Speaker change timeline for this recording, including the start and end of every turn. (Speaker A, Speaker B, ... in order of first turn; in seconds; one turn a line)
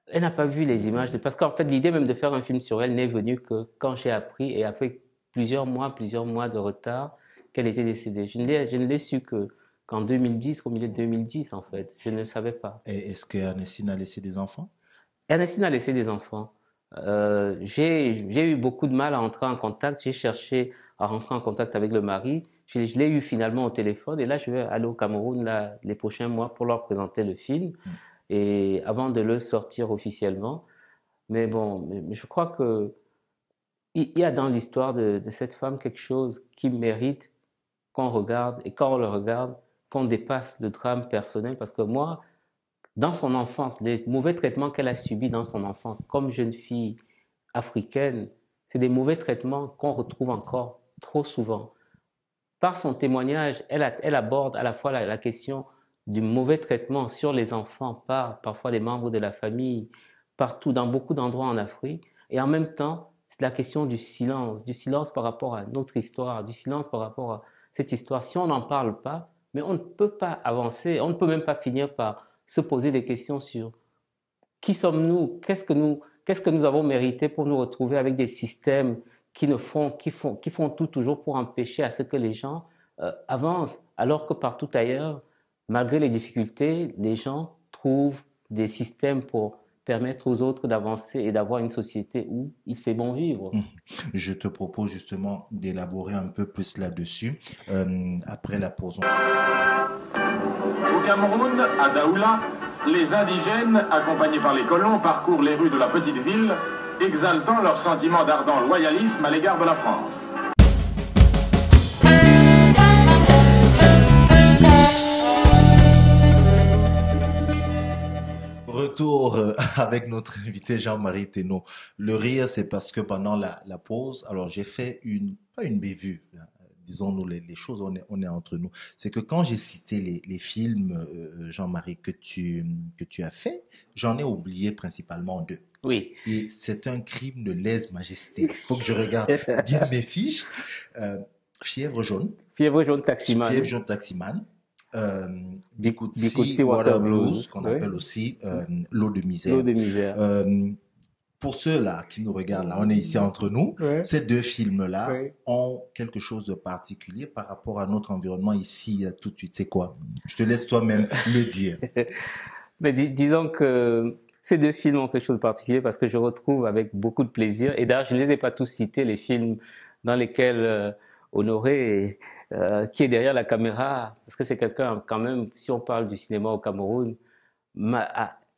Speaker A: 0.1-12.8
Speaker B: 0.5-1.2
Speaker B: 12.8-14.7
Speaker A: 15.3-30.7
Speaker A: 31.3-33.0
Speaker A: 33.9-37.3
Speaker A: 37.9-42.2
Speaker A: 43.0-47.0
Speaker A: 47.5-51.7
Speaker A: 52.6-73.7
Speaker A: 74.6-93.6
Speaker B: 93.5-99.1
Speaker C: 100.9-110.1
Speaker B: 118.7-135.7
Speaker A: 135.8-136.2
Speaker B: 136.2-142.4
Speaker A: 138.5-139.8
Speaker A: 142.5-143.7
Speaker B: 143.2-150.8
Speaker A: 145.8-147.9
Speaker A: 149.5-150.2
Speaker B: 151.4-161.8
Speaker A: 152.7-153.2
Speaker A: 153.8-154.1
Speaker A: 155.1-155.3
Speaker A: 162.8-177.2
Speaker A: 177.8-178.4